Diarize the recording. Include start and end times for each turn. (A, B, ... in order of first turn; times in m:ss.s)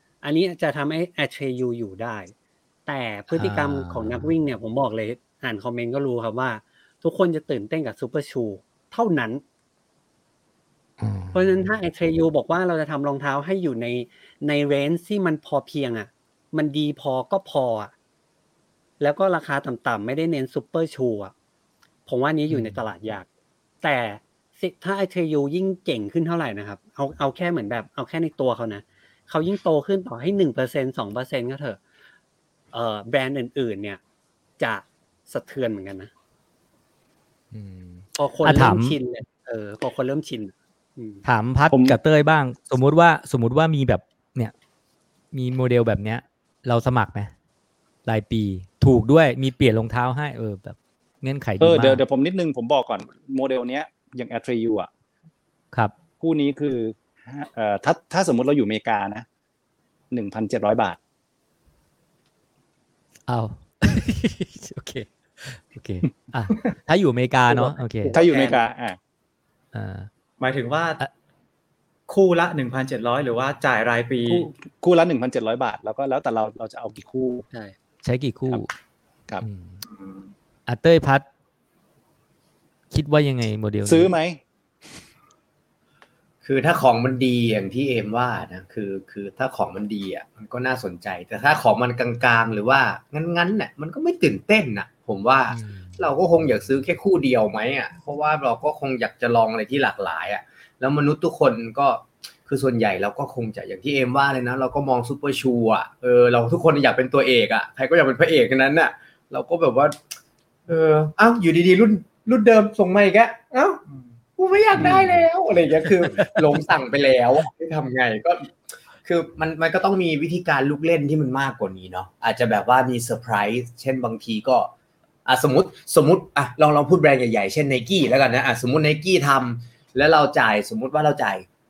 0:00.2-0:02.3 A
0:02.8-0:09.4 A
0:03.3-0:04.3 B
0:11.0-0:11.7 B
0:11.3-0:17.9 A
0:19.0-0:21.3 A
0:22.1-0:23.3 A
0:22.5-0:22.8 B
0:23.8-0:31.8 A
0:32.7-0:34.0 A
0:34.6-0:36.1 A
0:37.5-0:39.0 B
0:38.2-0:41.2 A
0:41.2-0:44.5 B
0:41.7-0:42.0 C
0:45.3-0:47.3 B
0:48.0-0:52.0 B
0:51.6-0:54.9 C
0:56.2-0:59.2 C
1:00.1-1:01.0 C
1:03.3-1:08.1 B
1:07.5-1:08.5 A
1:08.1-1:09.0 C
1:09.7-1:10.1 B
1:10.4-1:11.0 D
1:12.1-1:14.5 D
1:14.3-1:17.4 C
1:18.0-1:18.7 B
1:19.4-1:19.8 B
1:20.7-1:21.2 B
1:22.9-1:24.1 B
1:23.8-1:24.4 C
1:26.4-1:50.0 E
1:35.5-1:36.0 B
1:50.7-1:53.8 E
1:54.4-2:04.7 E
1:54.8-1:55.0 B
1:56.1-1:56.6 B
2:05.2-2:11.4 E